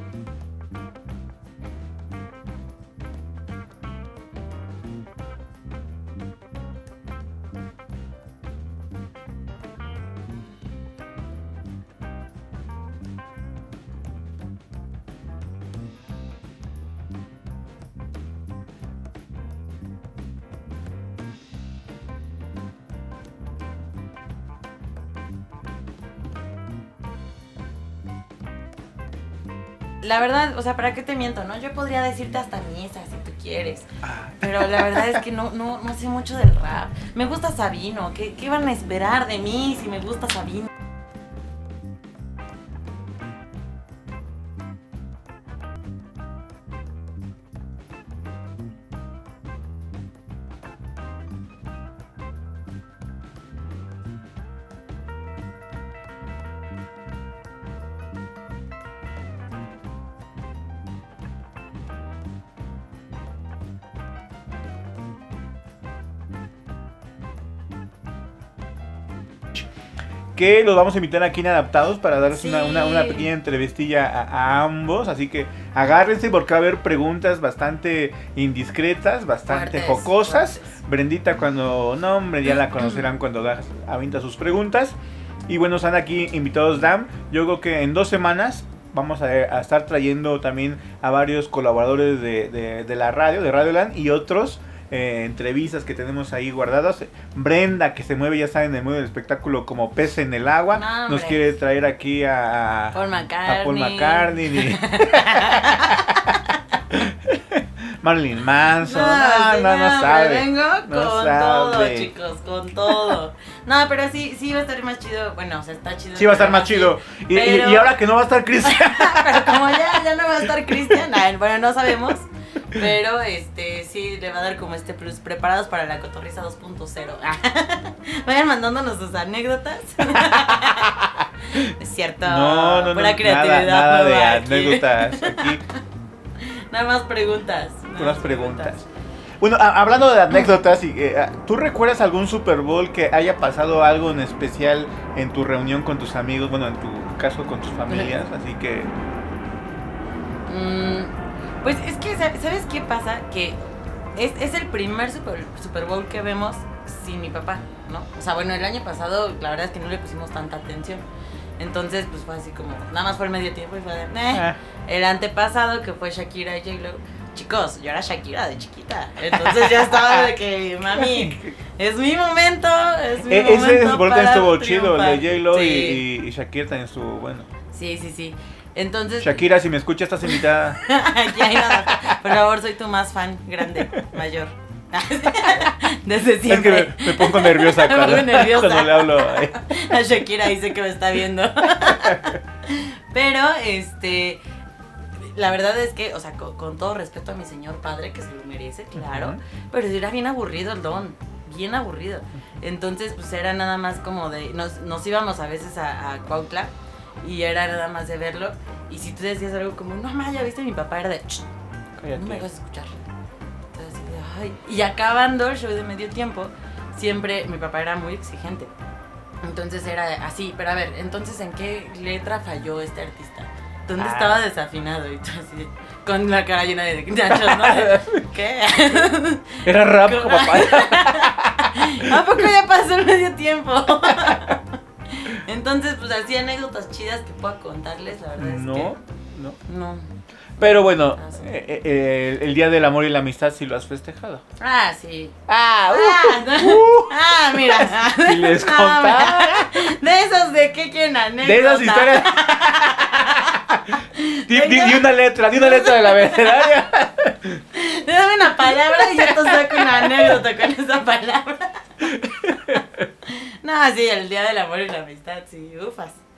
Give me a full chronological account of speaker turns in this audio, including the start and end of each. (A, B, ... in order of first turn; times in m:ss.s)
0:30.0-0:33.9 A
0:34.0-0:35.2 B
0:34.4-0:40.7 A
1:10.4-1:25.0 B
1:12.3-1:13.3 A
1:19.5-1:20.8 A
1:25.5-1:46.3 B
1:40.7-1:41.5 A
1:42.9-1:46.4 A
1:46.9-1:52.1 B
1:48.8-1:58.0 A
1:52.9-1:53.2 B
1:56.2-1:59.8 B
1:58.6-2:11.0 A
2:10.1-2:11.6 B
2:11.5-2:15.6 A
2:12.2-2:15.6 B
2:16.4-2:18.8 A
2:18.0-2:18.9 B
2:19.4-2:28.9 B
2:27.9-2:28.2 A
2:30.5-2:31.1 A
2:31.6-2:41.0 A
2:41.6-2:56.0 A
2:44.3-2:44.6 B
2:49.3-2:50.3 B
2:50.9-2:51.6 B
2:53.2-2:57.5 B
2:57.7-2:59.5 A
2:59.2-3:00.8 B
3:00.4-3:14.4 A
3:01.4-3:02.2 B
3:06.4-3:09.8 B
3:11.8-3:12.4 B
3:15.2-3:31.5 A
3:19.0-3:19.4 B
3:32.0-3:32.5 B
3:32.1-3:33.1 A
3:33.7-3:38.7 A
3:39.4-3:59.0 A
3:44.0-3:44.4 B
3:47.3-3:48.2 B
3:49.6-3:52.3 B
3:54.1-3:54.5 B
3:58.4-3:59.6 B
3:59.7-4:00.1 A
4:00.6-4:04.4 B
4:00.6-4:01.5 A
4:04.6-4:05.4 A
4:05.5-4:09.8 B
4:05.9-4:13.6 A
4:11.4-4:17.6 B
4:14.1-4:16.7 A
4:17.7-4:21.9 A
4:18.6-4:20.4 B
4:22.0-4:22.8 B
4:23.2-4:26.2 A